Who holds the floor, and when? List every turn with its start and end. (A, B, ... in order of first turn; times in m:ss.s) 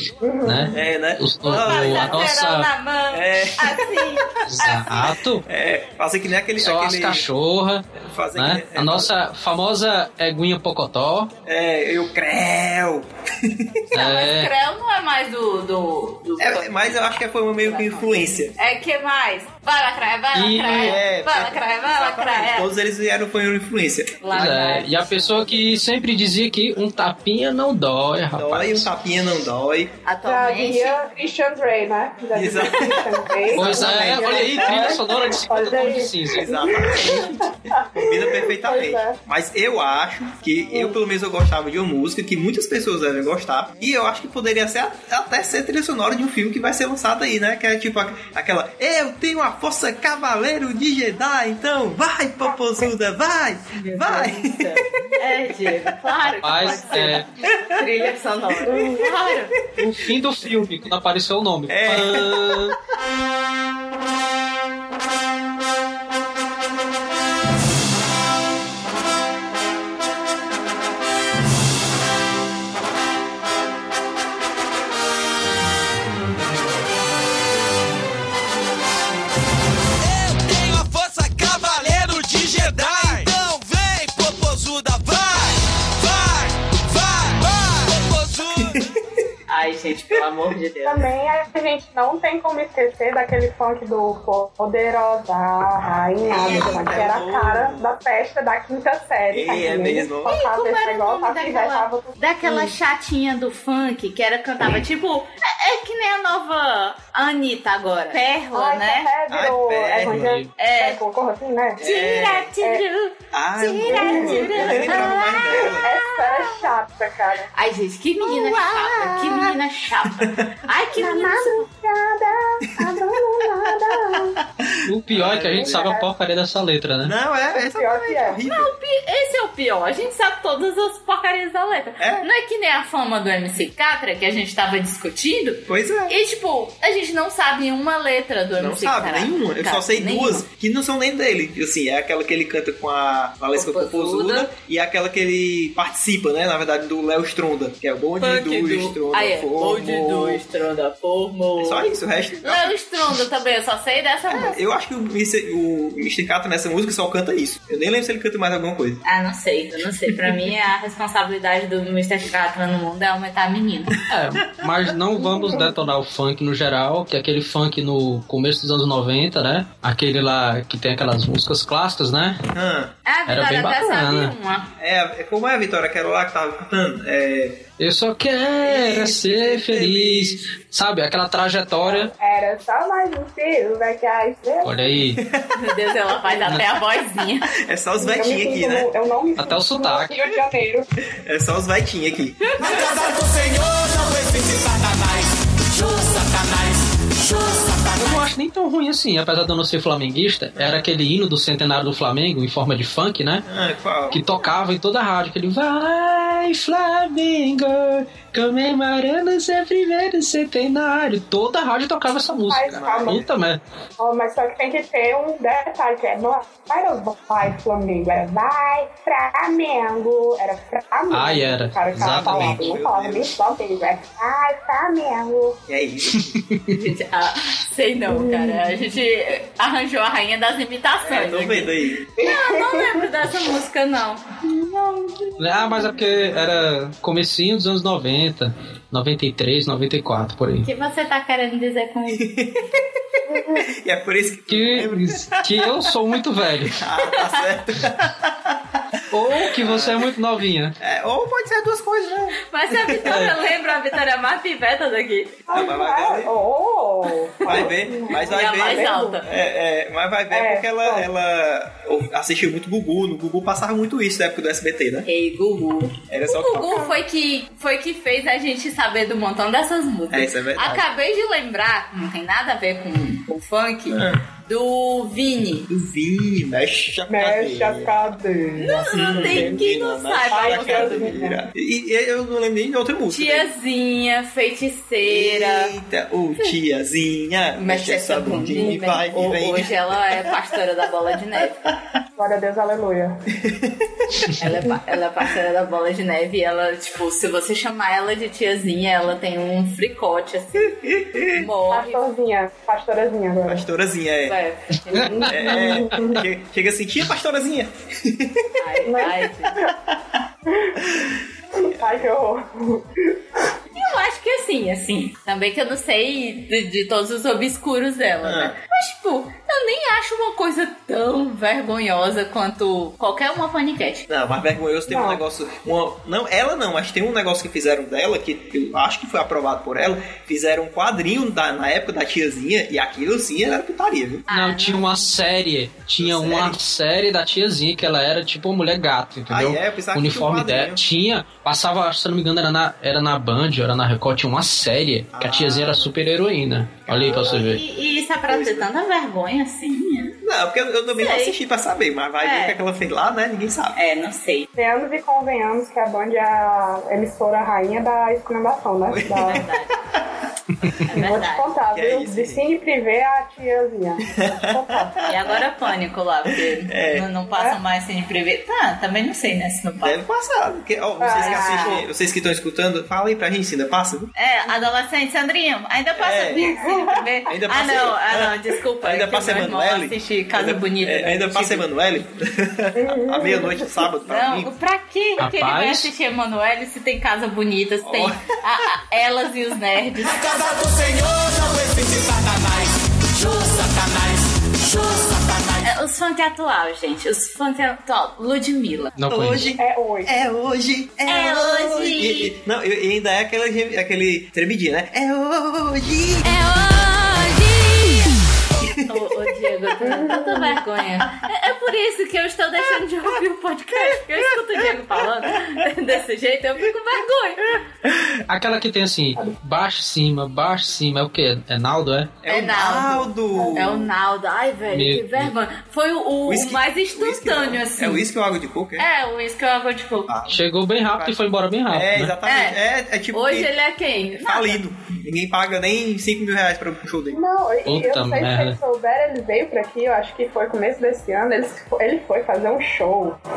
0:00.2-0:00.8 A
0:00.4-0:02.7 B
0:00.7-0:02.3 C
0:01.5-0:04.8 D
0:03.1-0:07.2 C
0:04.4-0:05.4 B
0:06.6-0:11.3 B
0:08.0-0:09.1 C
0:11.4-0:13.8 C
0:13.9-0:22.7 D
0:13.9-0:14.5 B
0:16.4-0:18.6 C
0:20.3-0:21.0 B
0:20.6-0:24.2 C
0:24.2-0:25.6 D
0:24.3-0:28.9 B
0:28.3-0:29.9 C
0:30.0-0:31.0 D
0:30.2-0:39.2 A
0:32.3-0:35.1 C
0:33.5-0:36.5 B
0:36.3-0:56.0 C
0:40.7-0:41.0 A
0:53.7-0:59.5 D
0:56.4-0:57.3 B
0:57.6-0:57.8 C
0:58.6-0:59.1 C
0:58.7-0:59.0 A
0:59.8-1:02.8 B
1:01.7-1:02.7 C
1:20.0-1:28.8 E
1:28.6-1:29.2 C
1:29.5-1:31.1 D
1:30.8-1:42.7 A
1:36.2-1:37.9 C
1:36.4-1:36.9 D
1:39.3-1:40.3 C
1:40.2-1:49.1 D
1:48.5-1:51.8 A
1:49.3-1:50.4 C
1:50.0-1:50.5 B
1:50.6-1:51.0 D
1:51.8-1:52.5 C
1:51.8-1:56.7 D
1:53.3-1:55.9 C
1:53.8-1:57.5 A
1:57.5-2:01.7 D
1:58.2-1:59.5 C
2:00.2-2:00.5 C
2:00.9-2:04.4 A
2:04.1-2:05.9 C
2:04.8-2:07.1 B
2:05.5-2:06.1 A
2:07.0-2:08.7 C
2:07.5-2:08.4 A
2:08.4-2:20.4 D
2:12.0-2:12.3 C
2:15.7-2:16.2 C
2:18.6-2:30.4 C
2:23.5-2:24.5 D
2:28.2-2:34.6 D
2:31.6-2:32.7 C
2:34.3-2:39.0 C
2:39.0-2:44.0 D
2:44.1-2:52.4 B
2:45.2-2:45.7 A
2:52.5-2:52.9 C
2:53.0-2:54.7 D
2:53.3-2:54.3 B
2:54.8-2:57.6 C
2:57.8-3:02.1 B
2:58.6-3:00.4 C
3:01.8-3:05.0 A
3:04.6-3:05.2 B
3:05.2-3:05.7 C
3:05.5-3:07.5 D
3:07.5-3:08.9 C
3:08.0-3:10.9 A
3:09.4-3:10.2 B
3:11.2-3:12.5 C
3:12.4-3:14.1 D
3:17.9-3:23.4 B
3:23.4-3:24.2 C
3:24.1-3:33.6 B
3:32.5-3:33.2 A
3:32.7-3:33.3 C
3:34.0-3:45.6 A
3:41.1-3:42.8 B
3:41.9-3:43.3 C
3:45.7-3:46.4 C
3:46.1-3:46.7 B
3:46.7-3:56.1 D
3:48.1-3:48.8 A
3:51.0-3:52.1 C
3:52.2-3:53.1 A
3:55.4-4:00.7 B
4:00.6-4:02.3 D
4:02.1-4:05.9 C
4:03.3-4:03.6 A
4:04.5-4:06.8 B
4:06.7-4:10.1 C
4:07.0-4:07.4 D
4:09.1-4:10.7 B
4:10.8-4:13.5 C
4:12.5-4:15.4 D
4:13.0-4:13.3 B
4:15.5-4:19.2 A
4:15.5-4:16.3 C
4:17.4-4:25.1 C
4:17.5-4:19.2 D
4:20.3-4:21.1 A
4:25.0-4:35.7 D
4:26.1-4:26.9 C
4:26.6-4:26.9 A
4:30.1-4:30.8 C
4:33.9-4:34.2 C
4:35.7-4:38.2 C
4:37.1-4:39.6 A
4:38.6-4:41.2 D
4:38.9-4:43.5 C
4:40.3-4:41.4 A
4:43.1-4:45.7 D
4:45.0-4:50.3 C
4:47.6-4:51.6 D
4:48.5-4:48.8 A
4:51.4-4:51.7 C
4:52.2-4:53.2 A
4:53.4-4:54.4 C
4:54.4-5:00.8 D
5:00.6-5:01.4 C
5:01.3-5:02.0 D
5:01.7-5:03.6 A
5:03.4-5:04.4 C
5:04.2-5:05.6 D
5:04.9-5:06.2 A
5:05.2-5:06.2 B
5:05.3-5:08.6 C
5:08.6-5:09.6 D
5:08.8-5:09.7 A
5:09.6-5:10.0 C
5:10.4-5:10.8 A
5:10.8-5:12.1 C
5:11.5-5:13.2 A
5:13.7-5:24.0 D
5:18.2-5:18.5 C
5:24.1-5:34.3 C
5:24.9-5:25.2 A
5:34.3-5:35.1 D
5:34.3-5:47.6 B
5:36.0-5:36.6 C
5:39.3-5:40.8 C
5:45.1-5:46.0 C
5:46.9-5:47.5 C
5:47.0-5:50.2 D
5:48.3-5:48.7 C
5:50.2-5:53.8 C
5:51.0-5:51.4 D
5:52.2-5:52.6 D
5:53.8-5:54.5 D
5:54.6-5:59.4 A
5:58.9-6:00.0 C
5:59.2-5:59.7 D
6:00.8-6:01.5 D
6:00.9-6:05.0 A
6:01.7-6:02.5 C
6:04.1-6:05.4 C
6:05.0-6:10.0 D
6:06.2-6:07.1 C
6:07.3-6:07.6 A
6:09.8-6:14.1 C
6:11.0-6:11.8 A
6:11.1-6:11.8 D
6:14.2-6:21.6 D
6:16.0-6:16.5 C
6:16.3-6:17.1 A
6:17.2-6:24.5 C
6:22.8-6:23.7 A
6:24.0-6:31.9 D
6:25.2-6:25.9 B
6:27.8-6:28.2 C
6:35.6-6:38.9 D
6:39.0-6:39.5 B
6:39.1-6:46.3 C
6:39.6-6:40.1 A
6:41.0-6:42.3 D
6:46.2-6:48.2 D
6:48.6-6:48.9 C
6:48.8-6:57.4 D
6:49.8-6:50.6 A
6:53.7-6:55.6 C
6:57.8-6:58.2 C
6:58.3-7:02.1 B
7:02.2-7:03.9 C
7:02.3-7:08.0 D
7:03.3-7:03.7 A
7:04.7-7:05.3 B
7:06.2-7:08.9 C
7:08.8-7:10.1 D
7:10.1-7:10.4 C
7:10.3-7:12.1 B
7:11.7-7:13.5 C
7:12.2-7:12.6 D
7:13.1-7:14.6 D
7:14.1-7:17.2 C
7:17.1-7:23.2 A
7:17.6-7:18.6 B